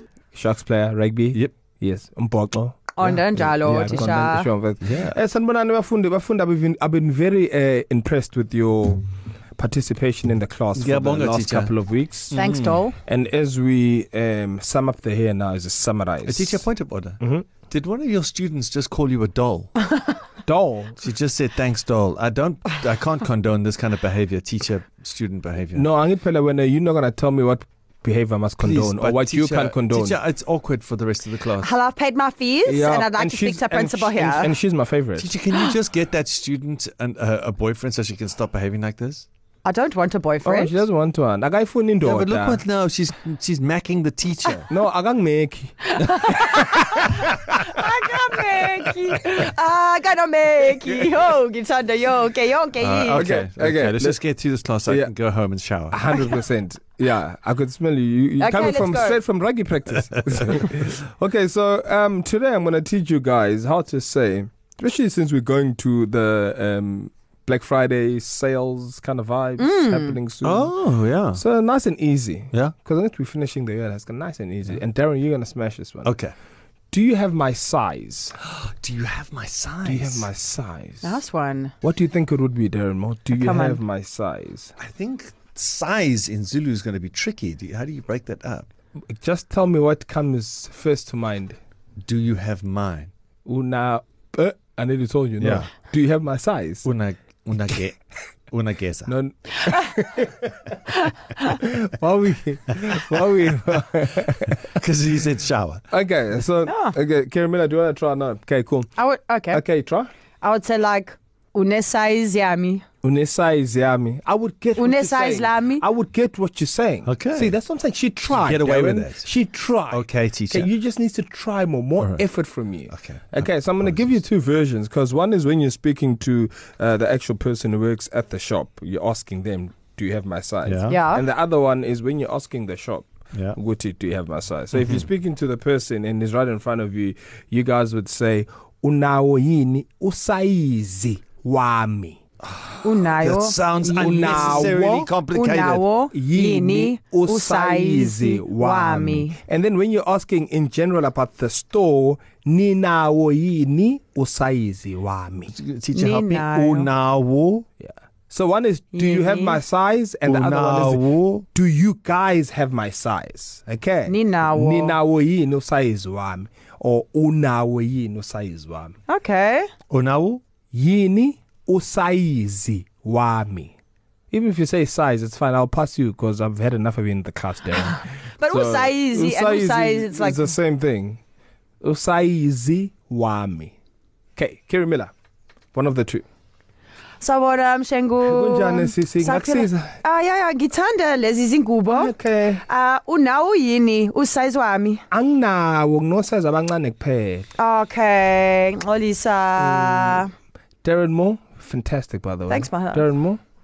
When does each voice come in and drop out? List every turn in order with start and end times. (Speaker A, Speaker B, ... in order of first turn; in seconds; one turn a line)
Speaker A: 0.3-9.1
Speaker B: 3.0-4.5
Speaker C: 4.8-5.2
Speaker A: 9.6-12.4
Speaker C: 10.8-11.7
Speaker C: 12.3-12.8
Speaker B: 12.3-13.0
Speaker A: 13.1-16.6
Speaker C: 16.2-19.7
Speaker A: 17.2-17.5
Speaker A: 20.5-21.0
Speaker C: 21.0-25.9
Speaker A: 25.8-30.2
Speaker C: 28.6-31.8
Speaker B: 31.6-34.5
Speaker A: 32.7-35.3
Speaker C: 35.2-39.3
Speaker B: 39.6-40.8
Speaker A: 40.4-42.6
Speaker C: 42.0-44.7
Speaker A: 44.7-47.6
Speaker B: 46.0-53.2
Speaker C: 52.8-56.0
Speaker A: 53.1-54.2
Speaker A: 54.9-55.1
Speaker A: 55.9-70.7
Speaker B: 58.4-59.2
Speaker B: 69.6-70.2
Speaker C: 70.4-71.4
Speaker A: 71.3-76.1
Speaker C: 76.0-76.3
Speaker A: 76.9-78.3
Speaker C: 78.4-80.3
Speaker A: 79.8-81.1
Speaker B: 81.0-81.7
Speaker A: 81.8-84.7
Speaker B: 83.4-83.8
Speaker C: 84.8-88.7
Speaker A: 89.1-91.6
Speaker C: 92.1-93.1
Speaker A: 93.5-96.9
Speaker C: 95.4-95.7
Speaker C: 96.8-98.0
Speaker C: 98.5-99.1
Speaker A: 99.1-100.7
Speaker B: 100.9-101.5
Speaker A: 101.5-104.7
Speaker C: 104.7-105.8
Speaker A: 105.9-108.9
Speaker B: 106.7-107.0
Speaker B: 109.0-109.6
Speaker A: 109.5-110.1
Speaker B: 110.4-112.8
Speaker A: 113.0-142.2
Speaker B: 114.8-115.8
Speaker C: 117.1-117.5
Speaker C: 118.3-119.3
Speaker C: 119.9-120.7
Speaker C: 122.9-124.2
Speaker C: 130.7-131.0
Speaker B: 130.9-131.2
Speaker C: 134.8-135.0
Speaker C: 142.4-145.8
Speaker B: 142.8-144.8
Speaker A: 143.9-145.1
Speaker B: 145.3-149.4
Speaker A: 146.1-155.5
Speaker C: 155.5-157.7
Speaker B: 155.9-156.9
Speaker A: 157.8-169.0
Speaker B: 158.9-159.6
Speaker C: 160.2-161.5
Speaker B: 164.1-165.0
Speaker B: 169.1-169.7
Speaker C: 169.9-170.4
Speaker A: 170.7-173.8
Speaker A: 174.3-181.2
Speaker B: 178.4-180.5
Speaker A: 181.8-183.8
Speaker A: 184.4-185.1
Speaker A: 185.7-186.2
Speaker B: 187.2-195.0
Speaker A: 188.2-189.9
Speaker A: 191.9-192.6
Speaker A: 195.1-197.5
Speaker B: 197.6-200.3
Speaker A: 199.6-200.3
Speaker A: 200.8-203.4
Speaker B: 202.5-203.1